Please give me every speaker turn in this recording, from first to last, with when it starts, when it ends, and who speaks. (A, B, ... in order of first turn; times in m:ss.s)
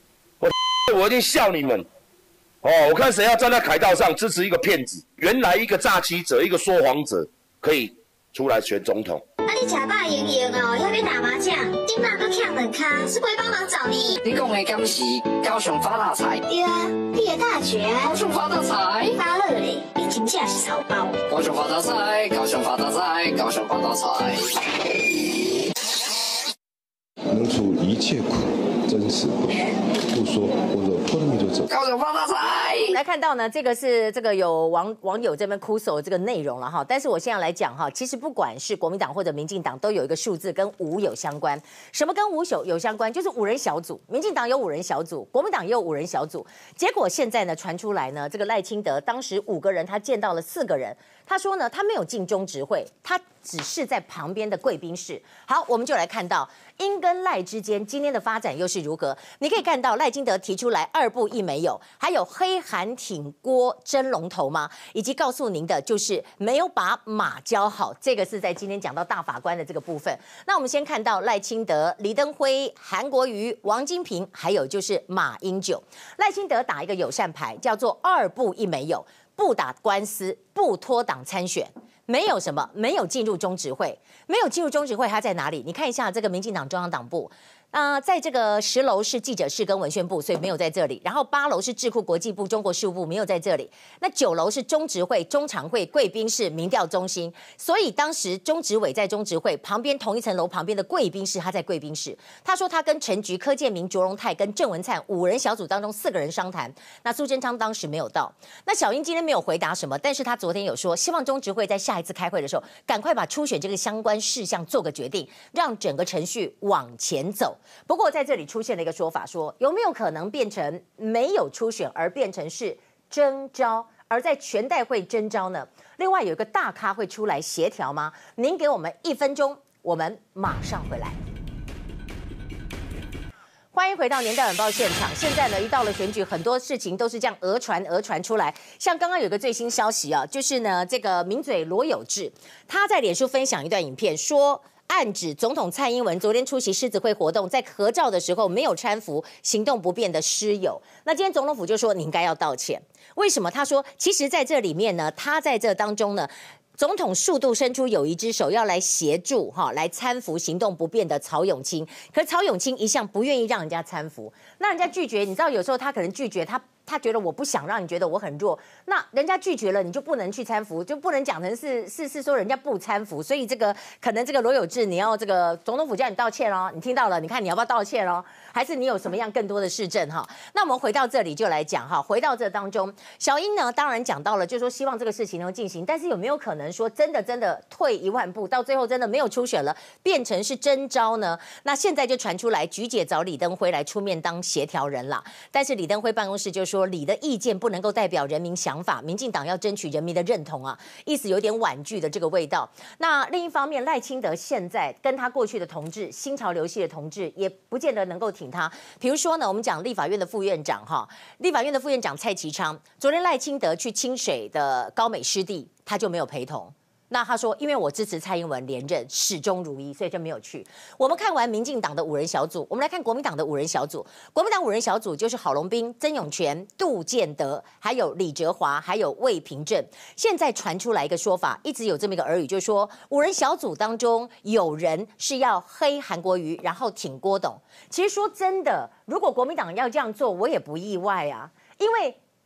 0:00.4-0:01.8 A
0:02.6-0:09.2 A
0:09.4-0:14.2 B
0:14.2-0:16.4 C
0:16.4-0:18.2 B
0:18.2-0:19.1 C
0:19.1-0:21.2 B
0:21.3-0:24.5 C
0:27.3-0:31.7 D
0:31.7-0:32.8 C
0:32.8-2:11.2 E
2:13.7-4:02.2 E